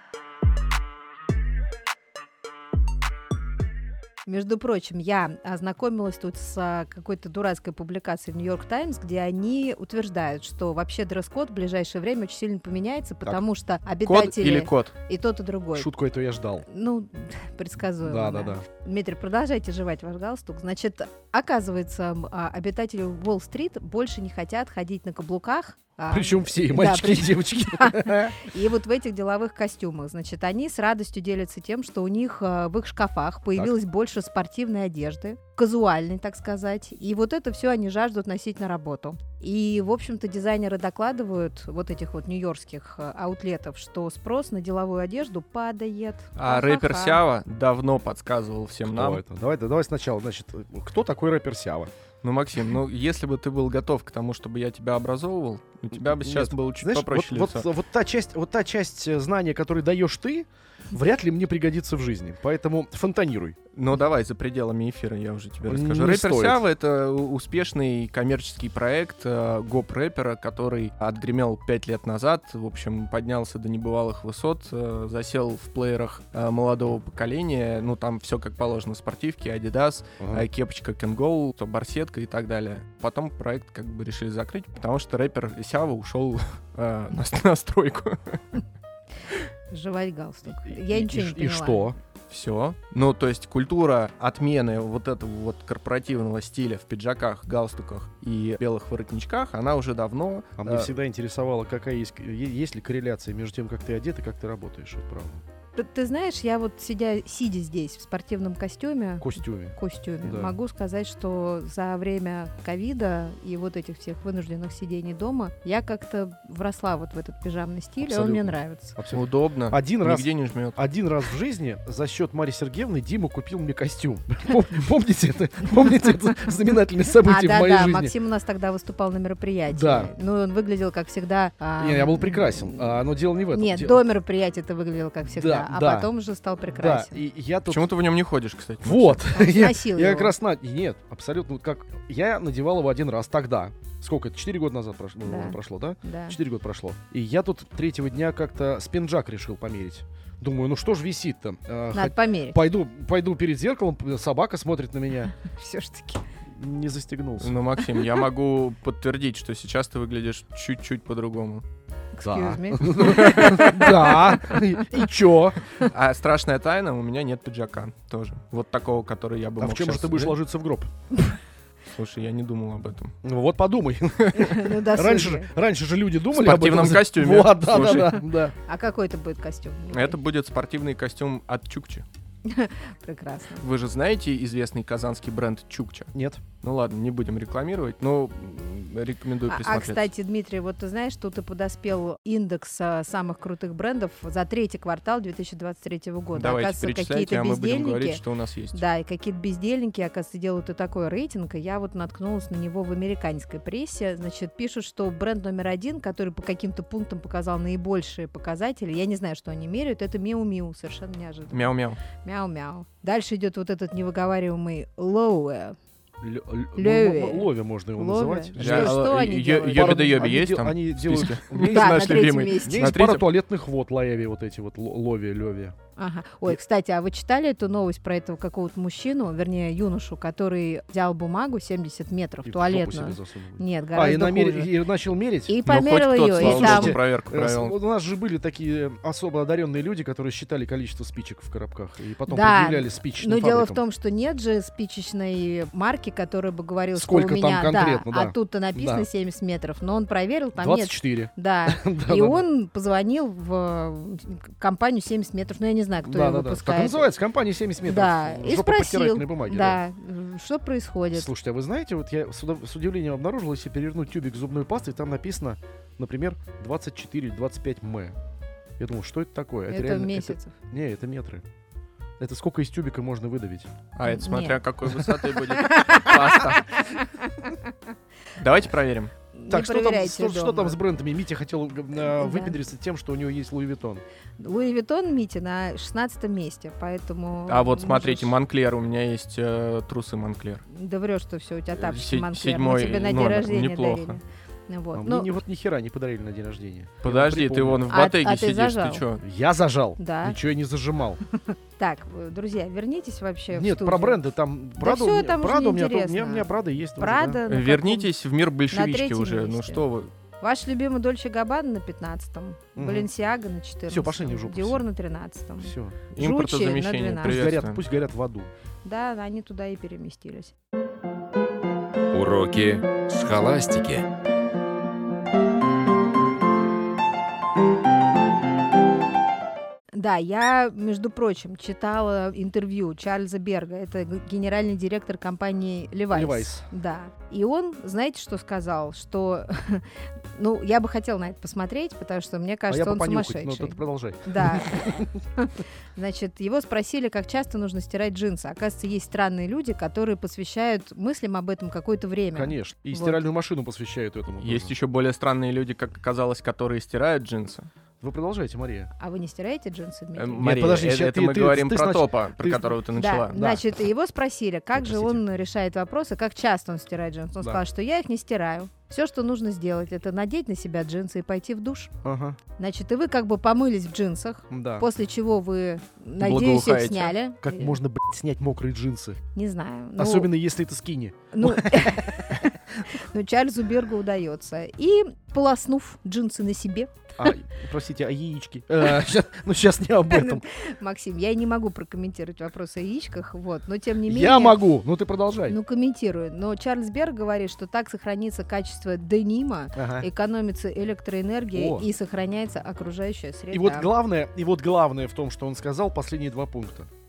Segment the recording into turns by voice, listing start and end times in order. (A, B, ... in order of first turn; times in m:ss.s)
0:04.2-0:15.9 A
0:14.0-0:14.9 B
0:15.7-0:16.6 C
0:16.6-0:47.2 A
0:18.0-0:18.6 C
0:26.1-0:28.4 C
0:46.4-0:49.2 B
0:48.9-0:51.9 C
0:52.2-0:57.7 B
0:56.0-1:03.6 C
1:03.7-1:28.6 B
1:05.6-1:06.6 C
1:20.2-1:20.5 C
1:29.7-1:31.9 A
1:30.6-1:32.0 C
1:32.3-1:40.9 B
1:40.6-1:45.4 C
1:45.8-1:59.0 A
1:49.2-1:50.5 C
1:58.1-1:58.4 C
1:59.0-2:08.1 C
1:59.1-2:00.8 B
2:07.2-2:13.0 A
2:09.7-2:10.1 C
2:11.8-2:14.0 C
2:13.5-2:17.1 A
2:15.3-2:16.1 C
2:16.7-2:17.8 C
2:17.7-2:19.2 B
2:18.8-2:35.3 C
2:19.3-2:20.3 A
2:25.2-2:26.4 A
2:31.9-2:32.6 A
2:35.4-2:36.2 A
2:36.5-2:37.5 C
2:37.4-2:41.6 B
2:42.1-2:43.8 A
2:42.2-2:45.6 C
2:43.0-2:44.3 B
2:45.8-2:50.3 B
2:49.6-2:50.9 C
2:51.9-2:53.1 B
2:53.2-2:58.5 C
2:54.3-2:55.5 A
2:56.3-2:58.2 B
2:58.6-3:00.2 A
2:59.9-3:02.0 B
3:02.4-3:03.6 A
3:03.6-3:06.1 B
3:06.1-3:06.4 C
3:06.6-3:10.1 B
3:09.5-3:18.2 A
3:16.3-3:18.8 B
3:18.7-3:35.8 A
3:31.5-3:32.0 B
3:36.2-3:45.7 C
3:36.8-3:40.2 A
3:38.6-3:43.3 B
3:41.6-3:43.0 A
3:46.0-3:54.7 A
3:52.4-3:55.6 C
3:55.5-3:57.0 A
3:55.6-3:57.7 B
3:56.3-4:03.8 C
4:02.3-4:17.1 A
4:06.9-4:09.1 C
4:10.6-4:12.4 C
4:16.0-4:19.8 C
4:17.8-4:21.3 A
4:21.1-4:28.2 C
4:28.8-4:31.4 C
4:29.7-4:30.5 A
4:32.2-4:33.7 C
4:33.9-4:36.9 B
4:34.0-4:37.5 A
4:38.4-4:39.1 B
4:39.3-4:40.8 A
4:39.5-4:44.0 C
4:42.0-4:42.6 A
4:44.4-4:48.3 A
4:47.5-4:50.6 B
4:50.7-4:55.3 A
4:51.7-4:54.2 B
4:54.9-4:57.9 C
4:57.0-4:59.2 B
4:57.9-4:59.0 A
4:59.2-5:01.2 C
5:00.0-5:00.4 A
5:01.5-5:04.2 A
5:03.5-5:07.4 C
5:04.8-5:08.1 A
5:07.5-5:10.1 B
5:08.7-5:09.8 A
5:10.4-5:17.5 A
5:12.8-5:13.1 C
5:13.9-5:14.8 C
5:15.6-5:16.0 C
5:16.1-5:17.8 B
5:17.2-5:18.5 C
5:18.8-5:20.5 A
5:22.1-5:24.1 D
5:29.9-5:53.2 A
5:36.1-5:36.6 C
5:42.7-5:45.1 C
5:52.3-5:54.7 C
5:54.4-5:57.7 B
5:58.0-5:58.9 C
5:59.0-6:00.5 A
6:00.2-6:03.6 B
6:00.4-6:02.8 C
6:02.9-6:11.9 A
6:04.8-6:05.2 C
6:12.0-6:12.4 C
6:12.6-6:17.8 A
6:14.5-6:14.9 C
6:16.2-6:17.1 B
6:17.4-6:19.2 C
6:19.3-6:20.3 A
6:20.0-6:22.3 C
6:21.3-6:27.0 A
6:27.2-6:30.4 C
6:30.1-6:34.6 A
6:34.1-6:35.6 C
6:35.5-6:43.9 A
6:39.8-6:40.1 C
6:41.5-6:41.9 C
6:43.5-6:46.9 C